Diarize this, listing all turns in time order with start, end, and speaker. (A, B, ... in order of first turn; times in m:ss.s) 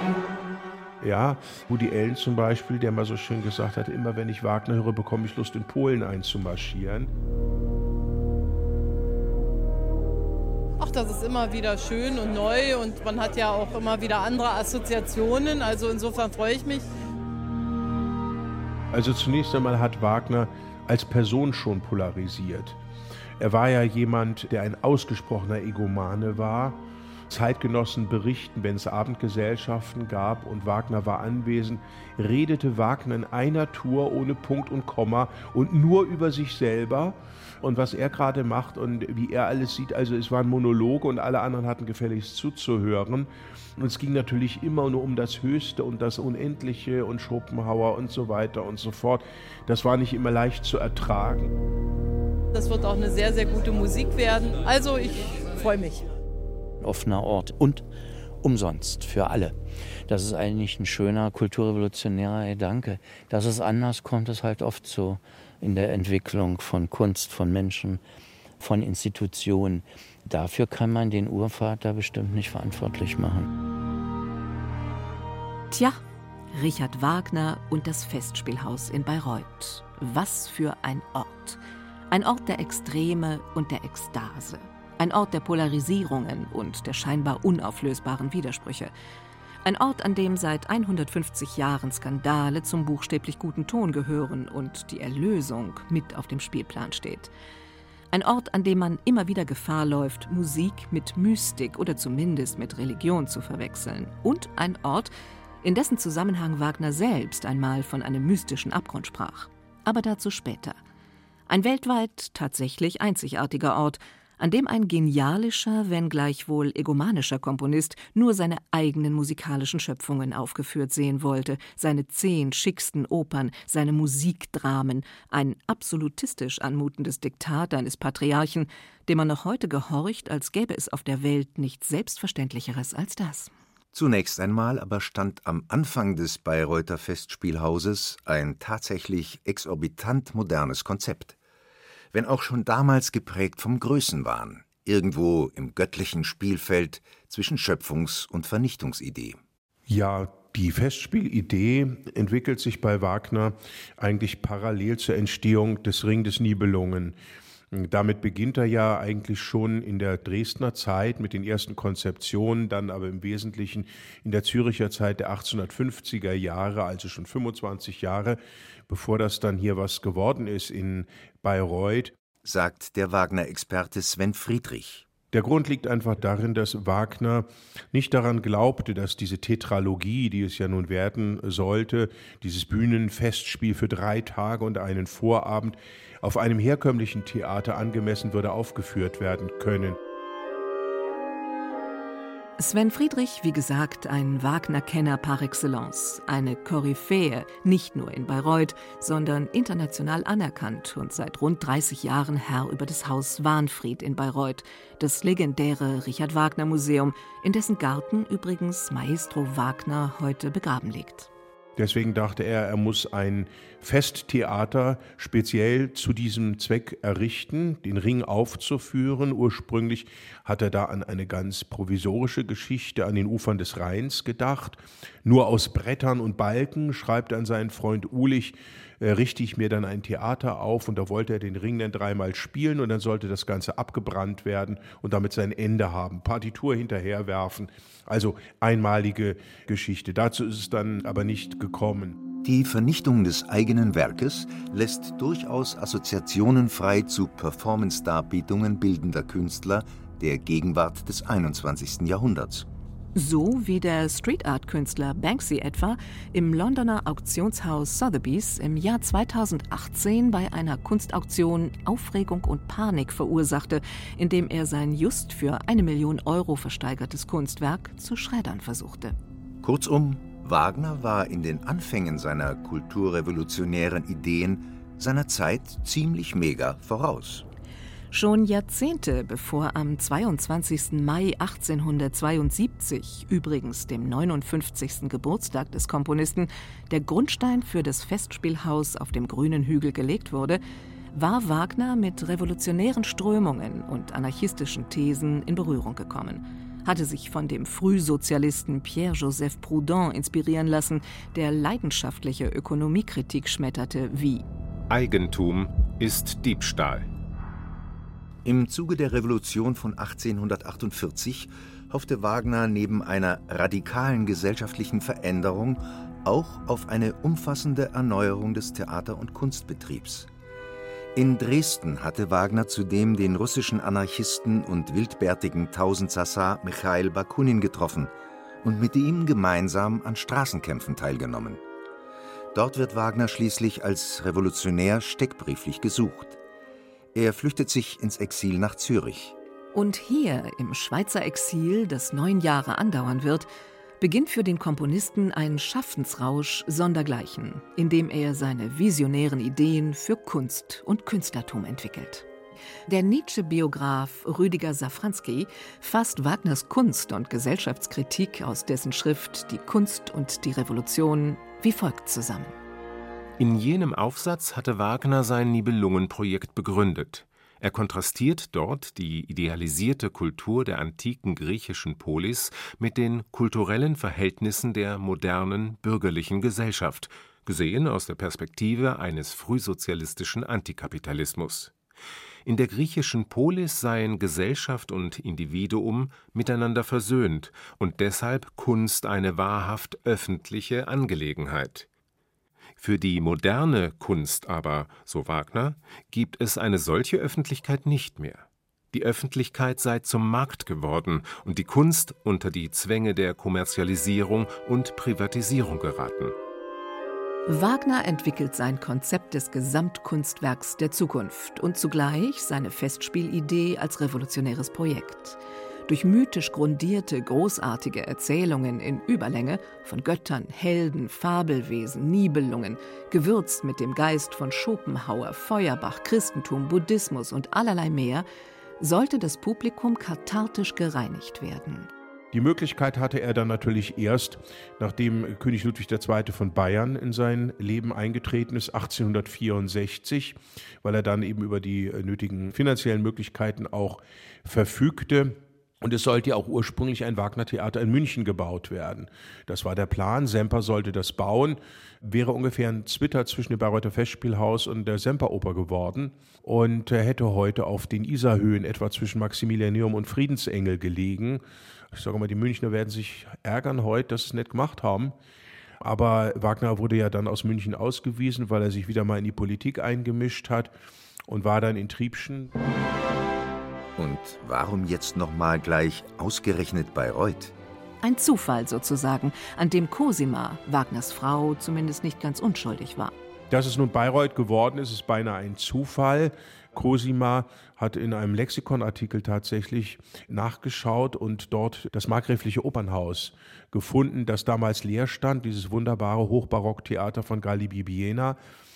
0:01.0-0:07.1 A
0:10.8-0:16.9 B
0:18.9-0:22.8 A
0:23.4-0:51.5 A
0:52.5-0:56.1 B
0:56.8-0:57.8 C
0:58.4-0:59.5 C
1:00.1-1:08.0 C
1:08.6-1:13.5 C
1:15.7-1:16.0 D
1:16.5-1:28.9 D
1:29.6-1:37.3 D
1:38.1-1:50.8 D
1:51.5-2:13.5 D
2:13.9-2:21.4 E
2:22.1-2:29.4 E
2:29.9-2:37.2 A
2:37.7-2:52.1 A
2:52.4-2:55.1 E
2:55.3-3:10.0 A
3:12.6-3:31.3 D
3:31.8-4:02.2 A
4:02.4-4:12.7 E
4:13.1-4:29.1 D
4:29.6-4:37.4 E
4:38.1-4:50.6 D
4:51.1-5:04.4 D
5:04.9-5:07.1 F
5:08.4-5:20.3 E
5:21.1-5:31.6 E
5:32.5-5:36.4 E
5:37.1-5:39.4 E
5:39.7-5:52.2 D
5:52.9-6:02.5 D
6:03.4-6:21.7 F
6:22.4-6:31.9 F
6:32.8-6:46.3 F
6:47.5-7:08.2 D
7:08.8-7:11.9 D
7:12.3-7:41.4 A
7:41.9-7:45.1 A
7:45.8-7:50.7 A
7:51.3-7:52.5 A
7:54.0-7:57.5 E
7:58.0-8:03.1 D
8:03.5-8:18.4 A